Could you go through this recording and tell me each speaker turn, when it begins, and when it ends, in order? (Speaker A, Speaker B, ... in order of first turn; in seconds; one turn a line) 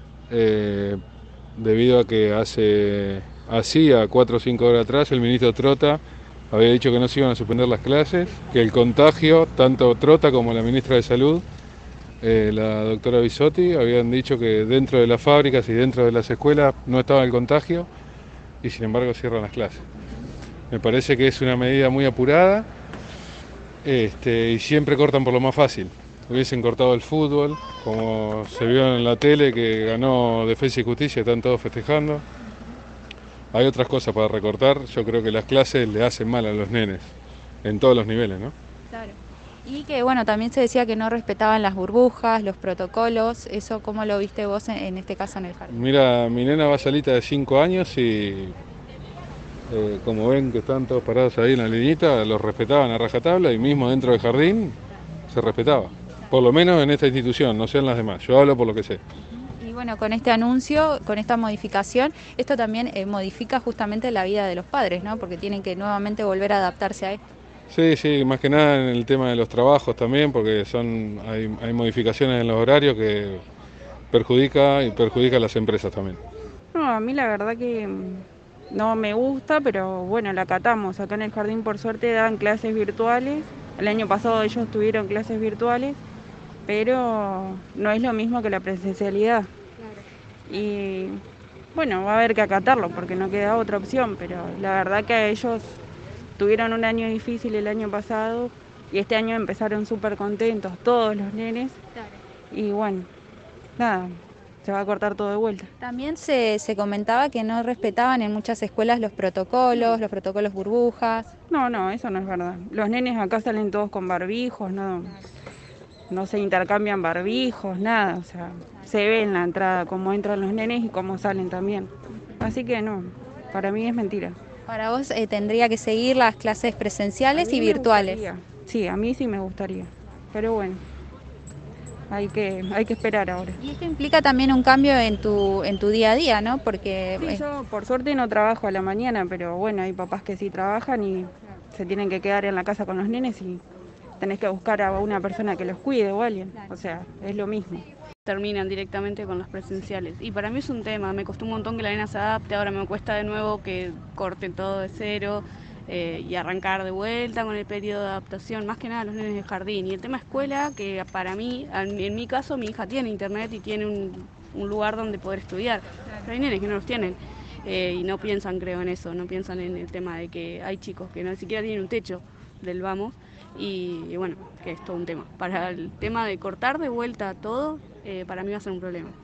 Speaker A: 0.3-1.0
Speaker A: 1.6-11.4
Speaker A: 12.2-17.9
Speaker A: 18.6-19.8
Speaker A: 20.7-22.7
Speaker A: 23.8-32.2
Speaker A: 33.5-38.5
Speaker B: 38.9-45.8
Speaker A: 45.7-48.6
Speaker A: 49.7-54.8
Speaker A: 55.3-59.0
Speaker B: 59.4-67.2
Speaker A: 67.7-73.4
Speaker A: 74.1-76.2
Speaker C: 76.7-86.0
Speaker C: 86.7-89.5
Speaker C: 90.5-91.2
Speaker C: 91.7-95.7
Speaker C: 96.4-101.8
Speaker C: 102.5-103.1
Speaker C: 103.8-105.7
Speaker B: 105.8-111.3
Speaker C: 109.7-110.0
Speaker C: 111.5-115.2
Speaker C: 116.1-124.4
Speaker B: 124.7-128.2
Speaker C: 127.3-130.8
Speaker C: 132.1-133.6
Speaker B: 133.6-137.4
Speaker C: 137.2-143.6
Speaker C: 144.2-147.8
Speaker D: 148.2-179.2